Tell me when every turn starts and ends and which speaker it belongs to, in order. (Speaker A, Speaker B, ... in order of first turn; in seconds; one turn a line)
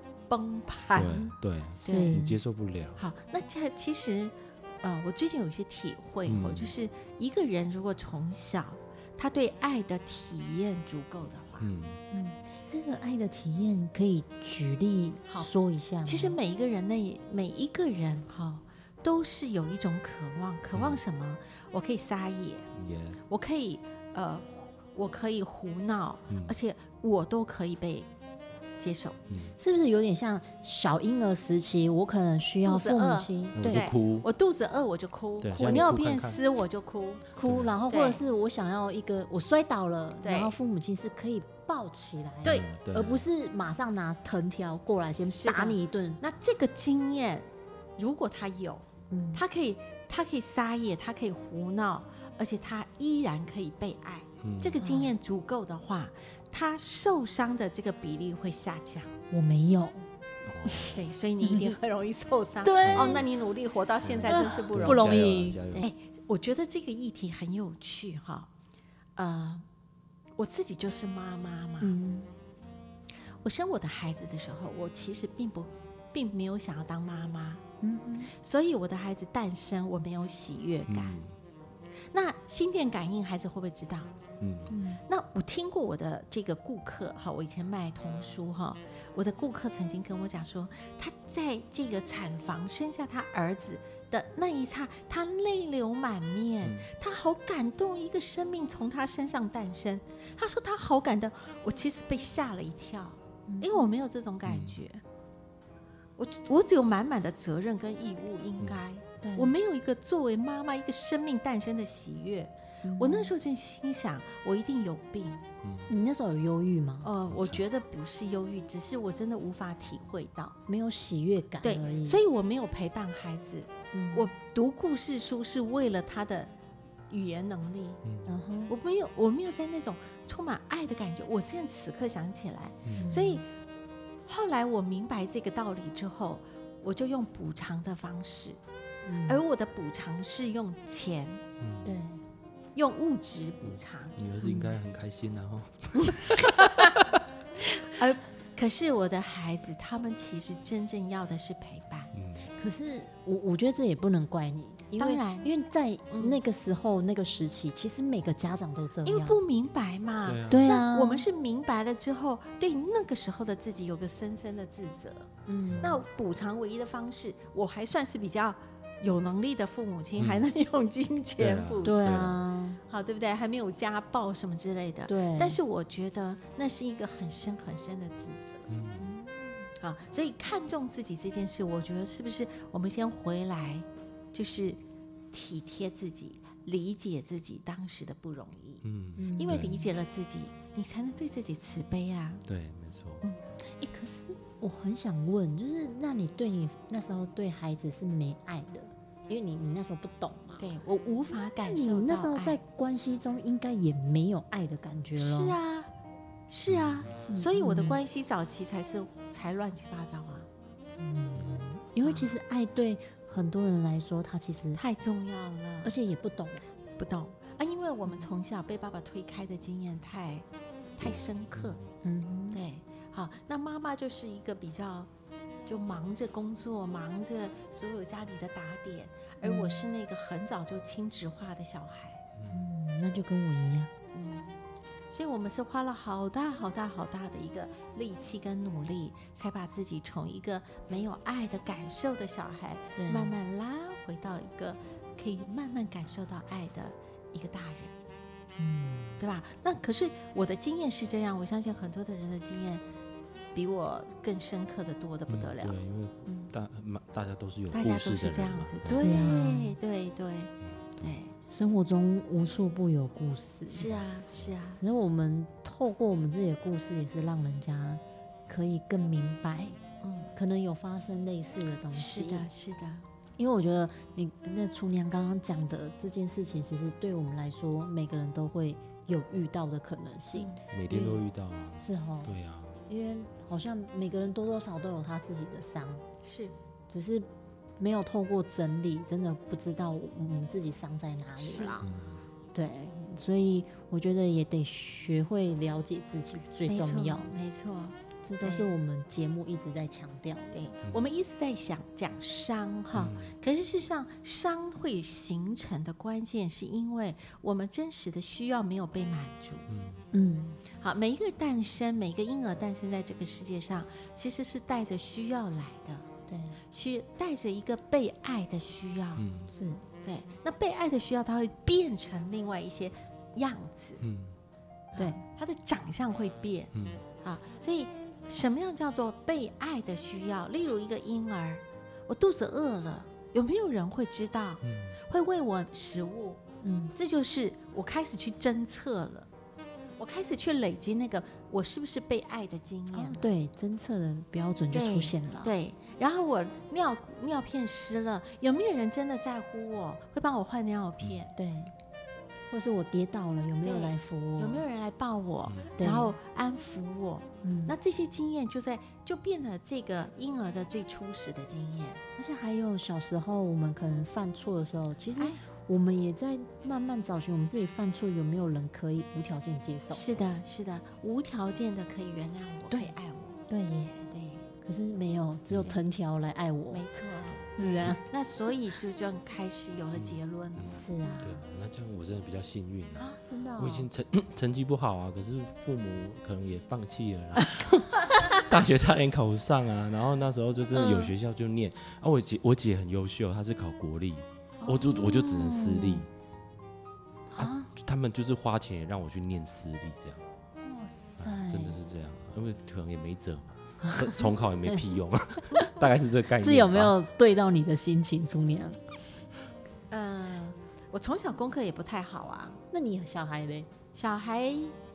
Speaker A: 0.3-1.3
Speaker B: 0.9-3.0
Speaker C: 1.1-2.4
Speaker A: 1.8-2.2
Speaker A: 3.0-11.7
Speaker B: 6.2-6.7
Speaker B: 11.6-12.0
Speaker C: 12.1-16.4
Speaker A: 16.0-22.7
Speaker B: 20.7-21.0
Speaker B: 22.7-23.2
Speaker A: 23.3-28.1
Speaker B: 26.3-26.6
Speaker A: 28.8-29.2
Speaker B: 29.3-29.5
Speaker C: 29.6-33.9
Speaker A: 32.6-37.2
Speaker B: 33.5-34.3
Speaker B: 35.4-36.4
Speaker C: 37.4-46.2
Speaker B: 37.4-37.8
Speaker A: 37.9-38.2
Speaker A: 40.2-40.5
Speaker B: 42.4-43.3
Speaker A: 45.3-59.1
Speaker C: 49.1-49.4
Speaker B: 54.4-54.8
Speaker C: 54.8-55.1
Speaker C: 59.3-60.1
Speaker B: 60.4-61.1
Speaker A: 60.9-65.2
Speaker C: 61.4-61.7
Speaker C: 62.6-63.2
Speaker B: 62.9-63.3
Speaker B: 64.0-65.9
Speaker C: 64.3-65.8
Speaker A: 65.8-68.5
Speaker A: 69.2-69.7
Speaker A: 70.4-71.9
Speaker C: 71.8-72.3
Speaker A: 73.4-77.6
Speaker C: 77.8-78.3
Speaker A: 78.3-81.2
Speaker B: 80.9-81.3
Speaker A: 82.1-84.1
Speaker B: 84.4-84.7
Speaker C: 84.7-85.0
Speaker A: 85.1-105.0
Speaker B: 96.6-96.9
Speaker C: 103.5-103.9
Speaker B: 104.5-104.8
Speaker A: 106.2-115.5
Speaker C: 109.2-109.5
Speaker C: 112.8-113.3
Speaker B: 115.6-115.9
Speaker C: 115.9-117.1
Speaker A: 117.0-120.5
Speaker B: 117.3-117.6
Speaker C: 120.7-122.2
Speaker A: 121.6-126.5
Speaker C: 123.9-124.3
Speaker A: 127.1-128.0
Speaker B: 128.0-128.3
Speaker C: 128.2-128.7
Speaker A: 128.7-133.4
Speaker B: 132.8-133.2
Speaker C: 132.9-133.4
Speaker A: 134.3-138.6
Speaker C: 139.0-139.4
Speaker A: 139.3-141.4
Speaker B: 141.6-142.0
Speaker C: 141.8-142.2
Speaker A: 142.7-144.2
Speaker B: 143.6-147.0
Speaker C: 144.4-144.7
Speaker A: 146.3-147.0
Speaker A: 147.7-152.1
Speaker B: 152.1-152.5
Speaker C: 152.6-159.4
Speaker A: 155.0-155.5
Speaker A: 156.1-156.4
Speaker A: 159.1-165.3
Speaker B: 160.2-160.8
Speaker C: 160.5-161.2
Speaker C: 165.5-166.0
Speaker B: 165.7-166.0
Speaker A: 165.8-171.9
Speaker B: 170.2-170.4
Speaker B: 171.4-172.4
Speaker C: 171.8-172.8
Speaker A: 172.9-178.7
Speaker C: 175.1-175.6
Speaker B: 178.7-179.1
Speaker C: 179.0-179.7
Speaker A: 179.8-184.8
Speaker A: 185.3-188.8
Speaker B: 188.8-189.8
Speaker C: 189.2-189.8
Speaker A: 189.4-192.4
Speaker B: 192.4-193.2
Speaker C: 193.7-200.7
Speaker A: 200.6-202.6
Speaker C: 201.6-205.6
Speaker A: 205.2-205.9
Speaker A: 206.5-210.5
Speaker B: 206.7-207.1
Speaker C: 207.2-208.0
Speaker C: 211.0-214.8
Speaker A: 212.0-212.3
Speaker A: 214.7-215.9
Speaker C: 215.8-216.6
Speaker A: 217.0-220.4
Speaker A: 221.0-221.8
Speaker B: 221.0-221.8
Speaker C: 222.0-222.6
Speaker A: 222.5-225.1
Speaker A: 225.7-232.2
Speaker C: 229.4-229.9
Speaker B: 232.3-232.6
Speaker C: 232.5-233.9
Speaker A: 234.1-234.6
Speaker A: 235.1-247.9
Speaker C: 242.9-243.3
Speaker C: 248.6-249.2
Speaker A: 249.2-252.8
Speaker A: 253.5-255.8
Speaker B: 255.3-259.3
Speaker C: 256.2-256.5
Speaker A: 257.7-261.3
Speaker C: 258.9-259.8
Speaker B: 260.7-261.2
Speaker C: 261.5-263.9
Speaker A: 263.7-264.8
Speaker B: 263.9-264.5
Speaker C: 264.8-269.8
Speaker A: 270.0-270.3
Speaker C: 270.3-272.5
Speaker A: 271.9-273.0
Speaker C: 273.4-281.2
Speaker A: 280.3-280.6
Speaker B: 280.7-282.8
Speaker C: 281.8-282.4
Speaker C: 282.9-286.0
Speaker A: 286.2-286.5
Speaker C: 286.9-287.3
Speaker C: 287.8-291.9
Speaker A: 291.4-291.8
Speaker B: 291.8-292.2
Speaker C: 292.5-297.3
Speaker A: 296.7-298.7
Speaker C: 298.2-300.6
Speaker A: 300.5-309.7
Speaker B: 302.9-303.3
Speaker B: 309.7-310.0
Speaker C: 310.1-310.6
Speaker A: 310.7-316.1
Speaker C: 316.3-316.6
Speaker A: 316.7-319.2
Speaker B: 319.2-319.5
Speaker C: 319.5-319.8
Speaker A: 320.0-324.0
Speaker B: 324.0-324.3
Speaker A: 324.9-336.4
Speaker B: 326.7-327.0
Speaker B: 334.6-335.0
Speaker C: 336.6-336.9
Speaker A: 336.9-339.3
Speaker A: 340.0-343.2
Speaker C: 342.9-345.5
Speaker A: 344.7-351.3
Speaker C: 351.4-351.7
Speaker C: 352.5-354.6
Speaker A: 353.6-362.0
Speaker B: 355.4-355.7
Speaker C: 355.8-356.1
Speaker C: 357.4-357.8
Speaker C: 362.2-370.2
Speaker A: 369.9-373.4
Speaker C: 372.7-372.9
Speaker C: 373.5-374.1
Speaker A: 374.1-374.5
Speaker C: 374.6-376.8
Speaker B: 375.5-375.7
Speaker A: 376.7-381.1
Speaker C: 377.6-378.0
Speaker B: 379.9-396.1
Speaker C: 380.6-381.4
Speaker C: 383.0-383.9
Speaker C: 390.7-391.1
Speaker C: 394.6-396.1
Speaker C: 397.3-397.7
Speaker B: 397.4-400.2
Speaker C: 400.6-401.8
Speaker B: 401.2-406.9
Speaker C: 403.8-404.1
Speaker C: 406.4-408.8
Speaker A: 409.9-412.6
Speaker C: 412.7-413.7
Speaker A: 413.9-414.8